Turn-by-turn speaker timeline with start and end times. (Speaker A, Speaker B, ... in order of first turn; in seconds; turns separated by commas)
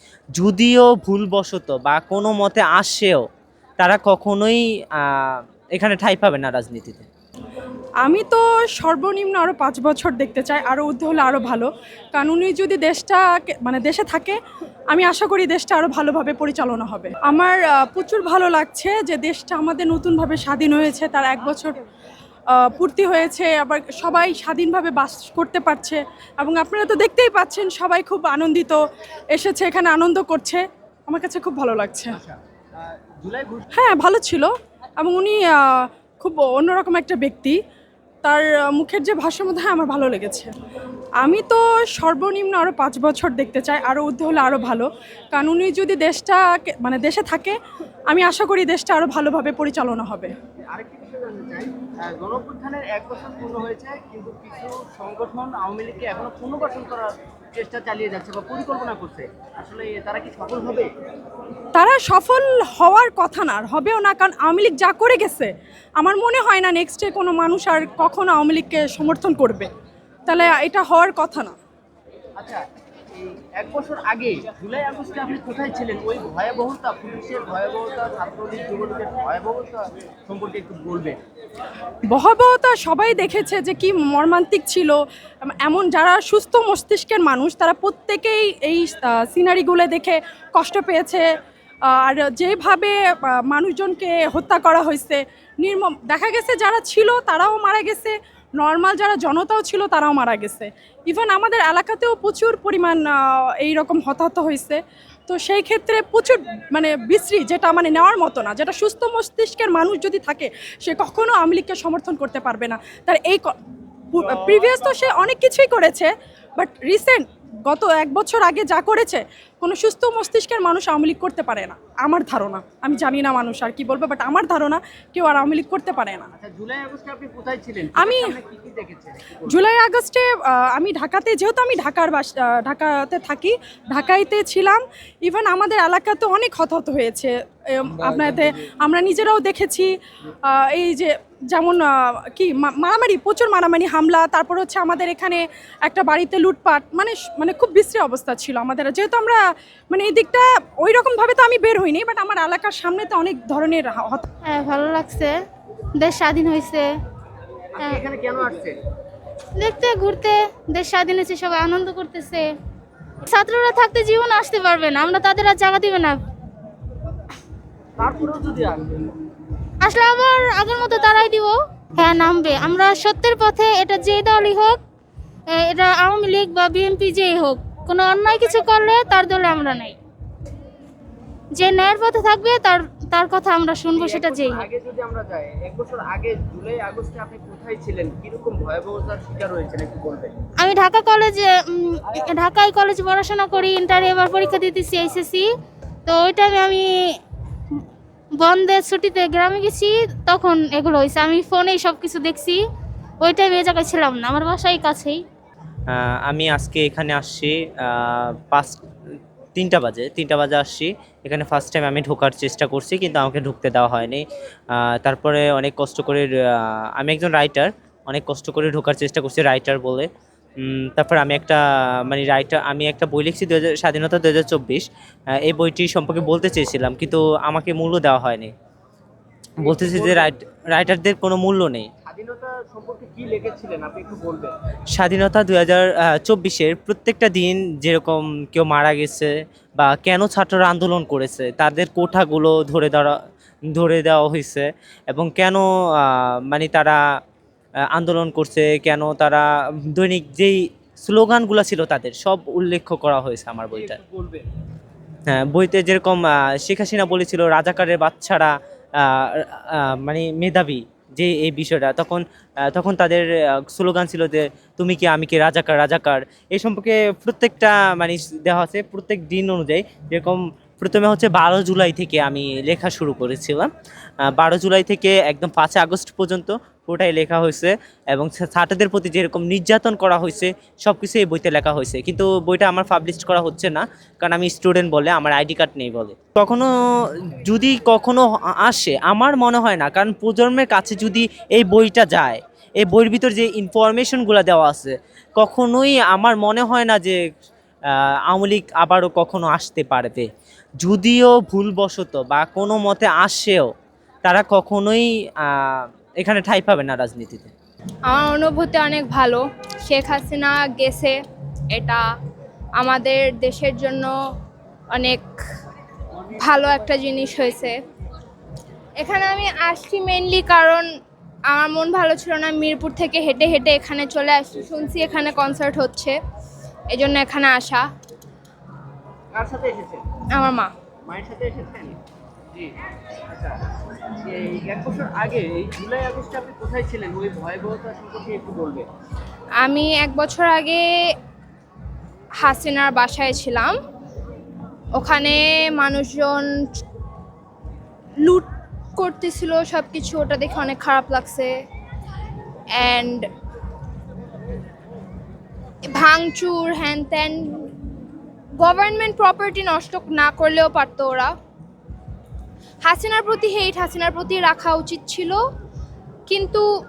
Speaker A: 0.4-3.2, Speaker A: 3.8-7.1, Speaker B: 8.0-14.4, Speaker B: 14.9-21.8, Speaker B: 22.5-32.2, Speaker C: 32.1-33.7, Speaker B: 33.8-37.6, Speaker B: 38.2-40.5, Speaker B: 41.2-47.6, Speaker B: 48.1-50.4, Speaker C: 50.7-60.9, Speaker B: 61.7-69.7, Speaker B: 70.3-71.5, Speaker C: 72.4-81.2, Speaker B: 82.1-91.3, Speaker B: 91.8-113.6, Speaker B: 114.1-126.3, Speaker C: 126.4-129.7, Speaker B: 128.0-128.3, Speaker B: 129.5-139.9, Speaker B: 140.5-154.3, Speaker D: 154.5-155.4, Speaker D: 156.0-156.9, Speaker C: 157.8-158.8, Speaker D: 159.6-162.5, Speaker D: 163.3-166.2, Speaker C: 168.0-169.1, Speaker D: 169.8-174.8, Speaker D: 175.5-180.0, Speaker D: 181.6-184.6, Speaker C: 183.9-190.3, Speaker D: 190.6-195.5, Speaker D: 196.1-196.9, Speaker D: 198.4-202.6, Speaker D: 203.2-205.2, Speaker A: 205.9-208.8, Speaker A: 209.6-224.9, Speaker A: 225.4-228.5, Speaker A: 229.6-231.9, Speaker C: 229.6-230.3, Speaker C: 232.1-234.5, Speaker A: 234.9-243.2, Speaker A: 243.7-247.0, Speaker A: 247.9-254.0, Speaker C: 253.7-254.4, Speaker A: 255.3-273.7, Speaker A: 274.3-286.7, Speaker A: 287.2-297.2, Speaker A: 297.9-300.3, Speaker A: 300.8-303.7, Speaker A: 304.2-307.5, Speaker E: 308.1-311.2, Speaker E: 311.7-312.1, Speaker E: 312.8-314.1, Speaker E: 314.9-315.3, Speaker E: 316.3-317.8, Speaker E: 319.0-320.9, Speaker E: 321.5-326.2, Speaker E: 326.9-327.9, Speaker C: 329.3-330.0, Speaker E: 330.4-330.7, Speaker C: 331.1-332.0, Speaker C: 333.3-333.6, Speaker C: 334.2-338.9, Speaker E: 339.6-340.8, Speaker E: 342.4-343.8, Speaker E: 345.0-346.5, Speaker E: 348.2-351.5, Speaker E: 352.8-353.3, Speaker E: 355.9-357.7, Speaker E: 358.6-361.3, Speaker E: 362.9-365.4, Speaker E: 366.3-366.7